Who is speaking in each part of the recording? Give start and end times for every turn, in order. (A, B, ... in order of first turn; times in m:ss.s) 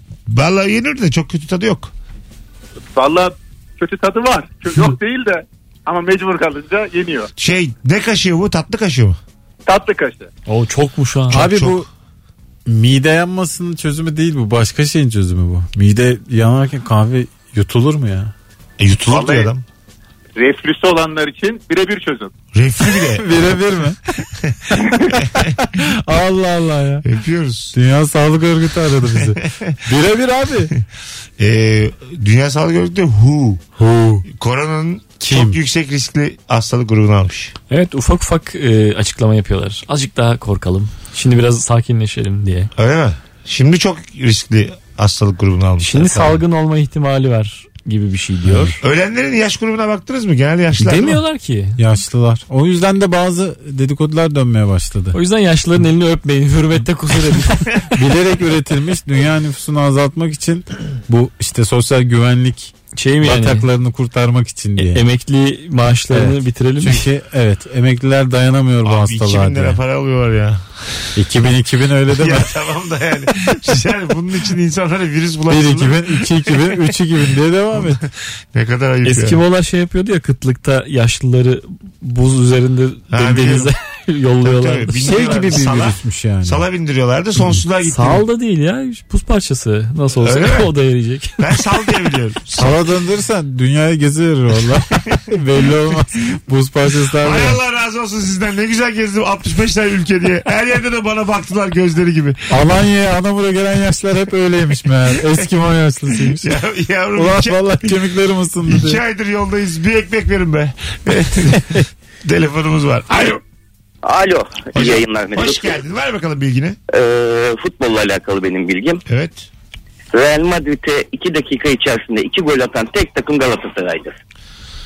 0:00.3-0:01.9 A
0:03.0-0:07.3 B
0:07.4-0:09.2 A
0:09.6-0:10.3 B
0:10.5-0:11.4 C
0:11.3-0:11.9 A
0:11.3-0:11.9 D
0:12.6-0:18.3 D
0:18.8-0:19.6 A
0:19.1-0:19.5 B
0:20.4-0:22.3 B
0:22.5-0:23.6 A
0:22.9-0:24.0 D
0:24.2-0:25.6 A
0:24.8-0:27.0 D
0:27.0-0:27.7 A
0:27.7-0:30.7 D
0:29.2-0:29.7 A
0:31.4-0:33.6 A
0:33.8-0:34.2 D
0:34.3-0:37.5 A
0:35.2-0:35.6 D
0:37.7-0:42.7 C
0:42.8-0:46.4 A
0:45.8-0:48.8 C
0:48.4-0:48.8 D
0:48.8-0:51.2 A
0:50.8-0:51.8 C
0:51.8-0:55.2 D
0:55.1-0:57.8 C
0:57.9-1:05.0 D
1:03.0-1:03.6 C
1:04.8-1:07.0 C
1:06.1-1:09.8 D
1:08.8-1:10.6 A
1:11.2-1:12.5 D
1:12.1-1:16.9 A
1:15.5-1:18.0 D
1:17.8-1:19.4 A
1:19.0-1:25.5 C
1:23.1-1:23.7 A
1:24.4-1:28.2 A
1:25.0-1:26.6 D
1:27.8-1:31.4 C
1:30.2-1:30.7 A
1:31.4-1:32.8 A
1:32.6-1:37.6 D
1:37.2-1:42.4 A
1:42.5-1:46.6 D
1:46.3-1:47.9 A
1:47.1-1:49.0 D
1:48.7-1:53.4 A
1:54.0-1:55.8 E
1:54.7-1:56.8 A
1:56.9-1:59.0 E
1:59.1-1:59.5 A
2:00.1-2:04.1 E